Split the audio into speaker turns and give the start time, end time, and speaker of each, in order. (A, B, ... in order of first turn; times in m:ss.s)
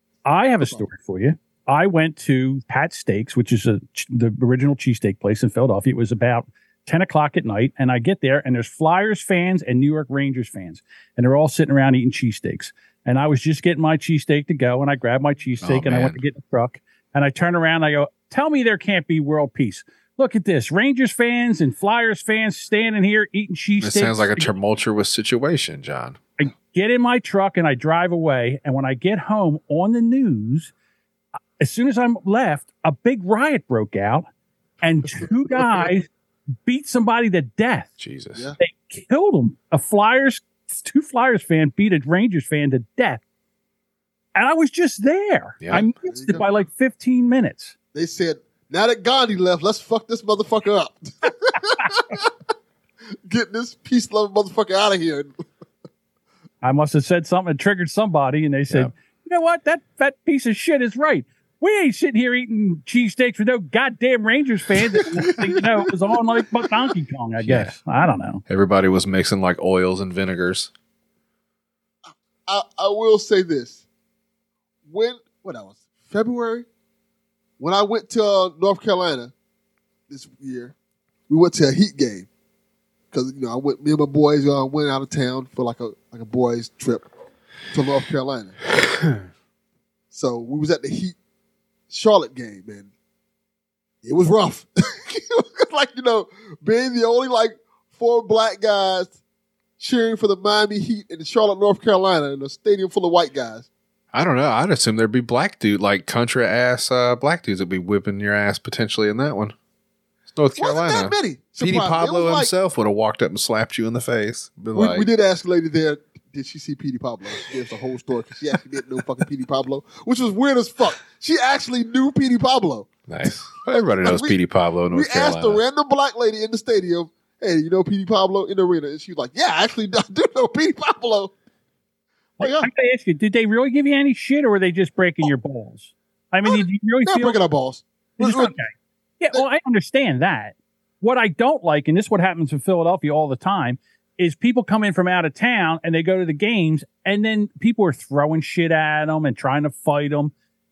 0:00.2-0:24.5 A
0:15.6-0:16.2 B
0:23.8-0:26.2 B
0:26.4-0:30.7 A
0:31.6-0:34.2 A
0:34.8-0:36.1 A
0:36.6-0:37.9 A
0:38.0-0:38.5 B
0:38.6-0:43.2 A
0:44.4-0:47.7 A
0:45.6-0:45.9 B
0:46.1-0:46.4 C
0:47.9-0:52.3 C
0:53.3-0:55.3 C
0:56.6-1:08.4 A
1:05.0-1:05.8 C
1:07.4-1:07.7 B
1:08.5-1:10.7 B
1:12.5-1:13.8 C
1:14.9-1:16.6 C
1:17.6-1:19.3 C
1:20.1-1:20.7 C
1:21.3-1:22.3 C
1:23.1-1:27.1 C
1:27.7-1:28.6 C
1:30.1-1:31.1 C
1:31.9-1:32.9 C
1:34.0-1:39.1 C
1:39.8-1:43.6 C
1:44.1-1:49.5 B
1:50.3-1:55.1 B
1:50.6-1:52.5 C
1:54.7-2:02.9 C
2:03.1-2:05.6 B
2:03.8-2:04.4 C
2:04.9-2:11.3 C
2:12.4-2:12.7 C
2:12.4-2:17.4 A
2:16.4-2:18.5 C
2:18.2-2:30.3 A